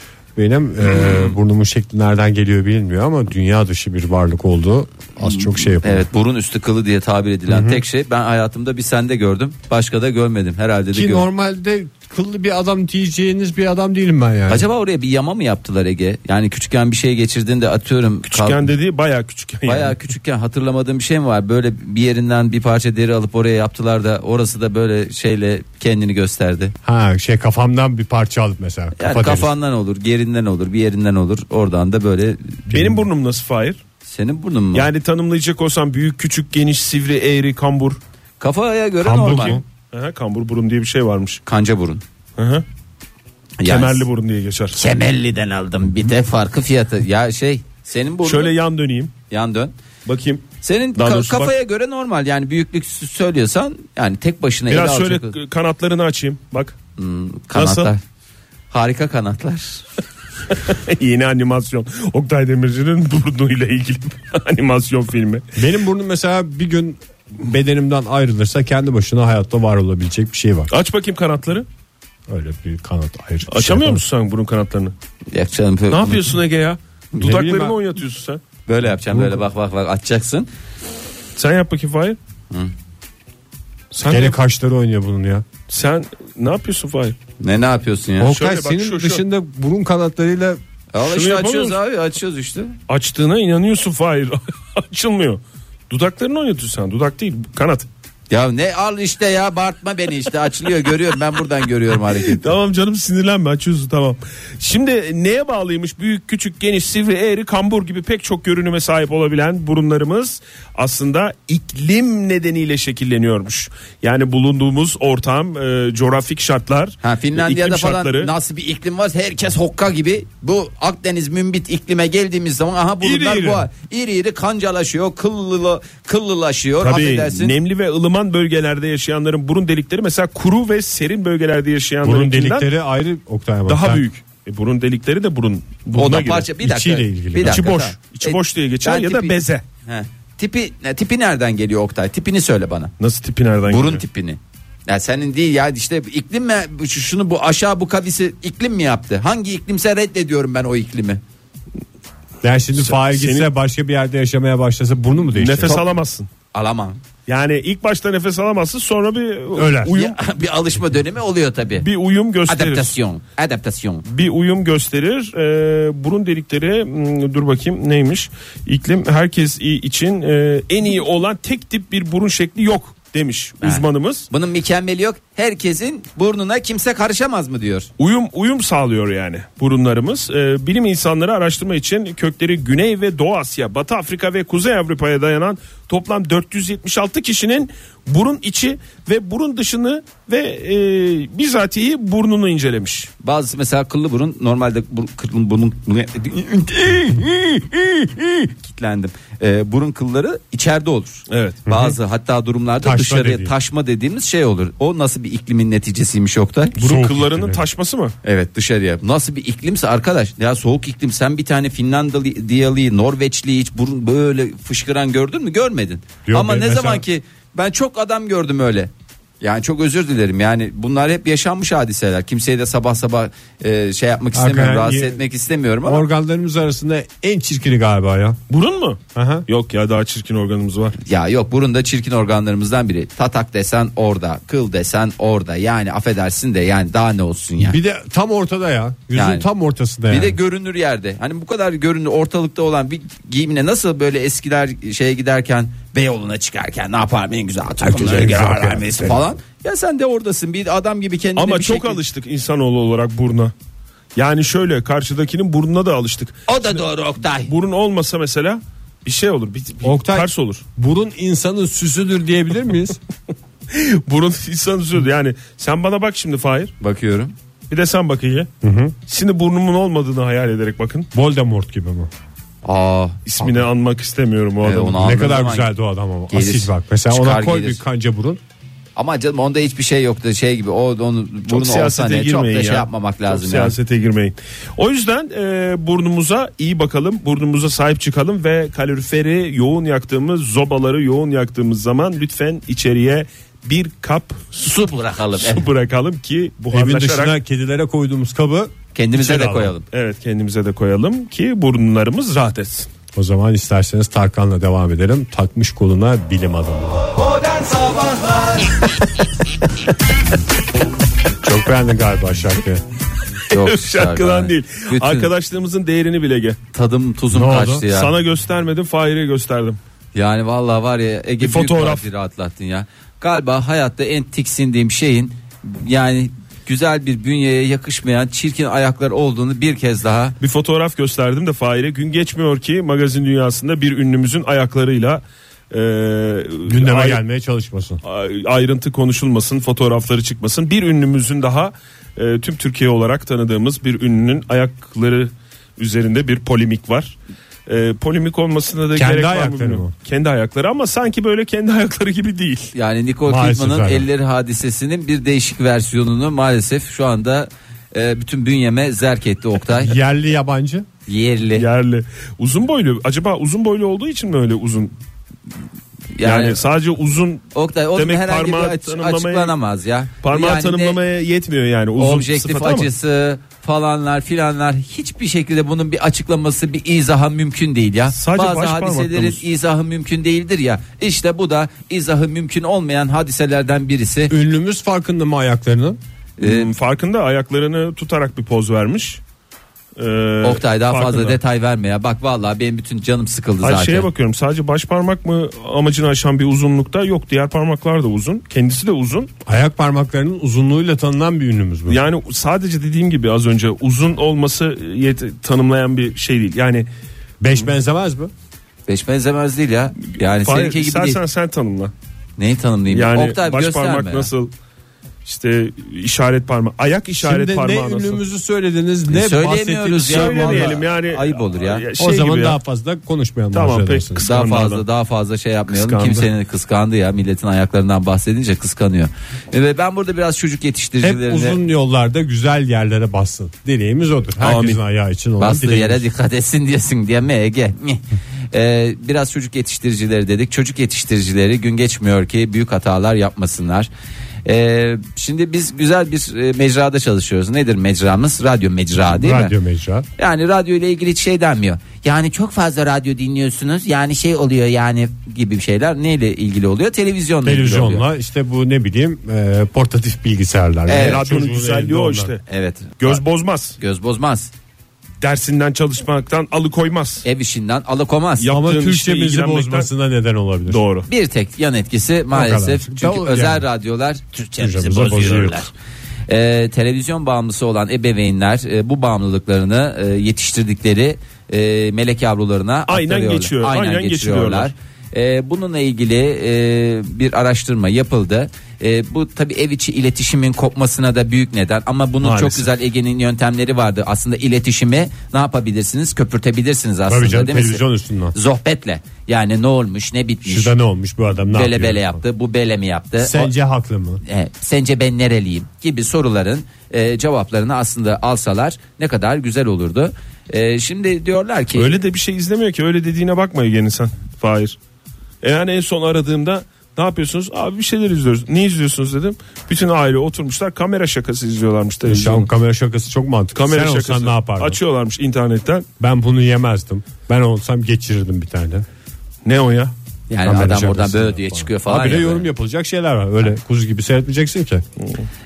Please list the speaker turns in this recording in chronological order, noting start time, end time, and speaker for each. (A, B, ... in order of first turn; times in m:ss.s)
0:00.4-0:06.1 A
0:05.2-0:11.3 B
0:07.5-0:07.8 A
0:10.9-0:14.6 A
0:14.5-0:18.7 B
0:18.3-0:20.0 C
0:19.6-0:26.8 B
0:26.8-0:29.5 A
0:29.0-0:32.7 B
0:32.7-0:33.8 C
0:32.7-0:33.0 A
0:34.1-0:34.9 B
0:34.7-0:38.0 C
0:38.4-0:39.6 B
0:39.0-0:39.6 A
0:39.1-0:41.4 C
0:41.5-0:42.0 B
0:42.4-0:42.6 C
0:43.6-0:44.1 B
0:43.6-0:44.8 C
0:44.8-0:48.5 B
0:48.2-0:49.1 C
0:49.3-0:49.7 B
0:50.1-0:51.5 C
0:50.6-0:55.4 B
0:54.7-0:56.8 C
0:57.0-0:58.0 B
0:57.6-0:57.9 C
0:58.7-0:59.8 B
1:00.5-1:05.4 C
1:05.6-1:10.7 A
1:10.7-1:11.7 C
1:12.3-1:14.0 A
1:13.5-1:14.9 C
1:15.3-1:16.3 B
1:15.9-1:18.4 C
1:17.1-1:17.6 B
1:17.2-1:17.7 A
1:18.7-1:20.5 B
1:19.1-1:19.4 A
1:21.4-1:22.2 C
1:23.9-1:24.4 C
1:24.0-1:25.5 A
1:25.7-1:27.2 C
1:27.4-1:28.4 B
1:28.2-1:30.6 A
1:28.2-1:29.2 C
1:30.9-1:32.8 B
1:31.0-1:31.8 C
1:32.9-1:37.9 C
1:38.3-1:42.6 B
1:42.0-1:58.3 C
1:57.0-2:07.6 B
2:03.0-2:03.7 C
2:06.8-2:12.7 C
2:12.0-2:14.0 A
2:13.7-2:16.5 C
2:16.0-2:19.3 B
2:16.6-2:17.7 A
2:17.4-2:19.6 C
2:19.9-2:22.9 B
2:23.0-2:24.0 C
2:23.7-2:31.2 B
2:32.4-2:35.7 A
2:32.8-2:33.5 C
2:35.3-2:36.3 C
2:35.6-2:35.9 B
2:36.5-2:37.0 B
2:37.3-2:40.2 C
2:39.5-2:40.0 A
2:39.9-2:41.9 B
2:41.8-2:43.0 C
2:42.5-2:44.1 B
2:44.1-2:54.3 C
2:53.6-2:57.9 B
2:58.0-3:13.1 C
3:13.2-3:26.8 B
3:21.3-3:21.7 C
3:21.7-3:21.9 A
3:22.8-3:23.5 A
3:26.8-3:28.1 C
3:26.8-3:27.6 A
3:28.2-3:38.9 B
3:36.3-3:37.0 A
3:39.4-3:46.0 B
3:44.3-3:45.2 A
3:45.8-3:48.4 A
3:48.5-3:51.0 C
3:49.2-3:49.5 A
3:51.0-3:57.8 B
3:57.6-4:00.4 A
3:59.1-3:59.4 B
4:00.1-4:12.0 B
4:07.9-4:09.3 A
4:11.4-4:13.5 C
4:14.2-4:20.6 C
4:16.5-4:17.5 B
4:19.8-4:23.0 A
4:23.7-4:26.7 C
4:26.8-4:27.3 B
4:27.7-4:28.5 C
4:28.6-4:29.0 A
4:29.1-4:31.1 C
4:31.1-4:32.1 A
4:32.6-4:33.2 B
4:33.3-4:35.0 C
4:34.6-4:35.7 B
4:35.0-4:38.4 A
4:36.3-4:37.8 B
4:39.0-4:43.7 B
4:41.5-4:54.5 C
4:54.5-4:55.7 B
4:55.4-4:57.4 C
4:56.7-4:59.7 A
4:59.0-4:59.8 B
4:59.9-5:02.9 C
5:03.2-5:07.1 A
5:11.4-5:12.8 A
5:13.5-5:15.3 B
5:13.5-5:16.6 C
5:16.7-5:18.1 B
5:17.3-5:17.8 A
5:17.9-5:19.8 C
5:20.2-5:30.4 B
5:21.4-5:22.1 C
5:30.4-5:37.2 C
5:36.7-5:38.0 A
5:38.0-5:52.7 C
5:49.0-5:49.9 A
5:52.7-6:00.0 B
5:53.3-5:54.1 A
5:59.7-6:00.9 A
6:01.1-6:01.7 B
6:01.6-6:04.9 C
6:06.2-6:06.6 B
6:06.2-6:09.5 C
6:07.6-6:11.0 B
6:10.2-6:12.9 C
6:12.0-6:24.3 B
6:18.1-6:19.4 C
6:24.3-6:26.0 A
6:26.4-6:26.7 B
6:26.4-6:29.2 C
6:30.0-6:31.4 C
6:30.4-6:34.1 B
6:33.6-6:39.3 C
6:39.5-6:42.0 A
6:41.9-6:46.9 C
6:47.4-6:48.3 A
6:48.9-6:51.2 B
6:50.4-6:51.9 C
6:52.4-6:54.3 B
6:52.9-6:54.5 C
6:55.2-6:58.2 C
6:57.2-7:00.8 A
6:59.1-7:01.9 B
7:00.0-7:02.6 C
7:02.0-7:04.2 A
7:03.5-7:04.8 C
7:04.2-7:11.6 B
7:05.7-7:06.3 C
7:11.0-7:16.0 A
7:14.4-7:14.8 C
7:15.4-7:23.9 B
7:24.5-7:29.5 B
7:29.1-7:30.1 A
7:30.2-7:38.0 B
7:37.4-7:42.4 A
7:40.9-7:41.2 B
7:40.9-7:42.4 C
7:42.5-7:43.2 B
7:43.0-7:43.8 C
7:43.8-7:44.5 B
7:45.2-7:47.3 C
7:47.2-7:48.5 B
7:48.4-7:49.9 C
7:48.5-7:50.8 A
7:50.7-7:51.1 C
7:51.1-7:55.7 B
7:52.3-7:53.6 A
7:54.6-7:55.6 A
7:56.3-8:17.8 B
8:02.9-8:04.7 C
8:12.2-8:12.7 C
8:17.1-8:18.4 A
8:18.3-8:20.7 B
8:20.4-8:22.2 A
8:21.4-8:23.5 B
8:23.2-8:24.2 A
8:24.2-8:31.9 B
8:31.8-8:34.8 C
8:35.4-8:42.5 C
8:42.0-8:44.8 A
8:43.6-8:45.9 C
8:46.0-8:48.9 A
8:49.4-8:49.9 C
8:50.3-8:52.5 B
8:50.4-8:54.8 A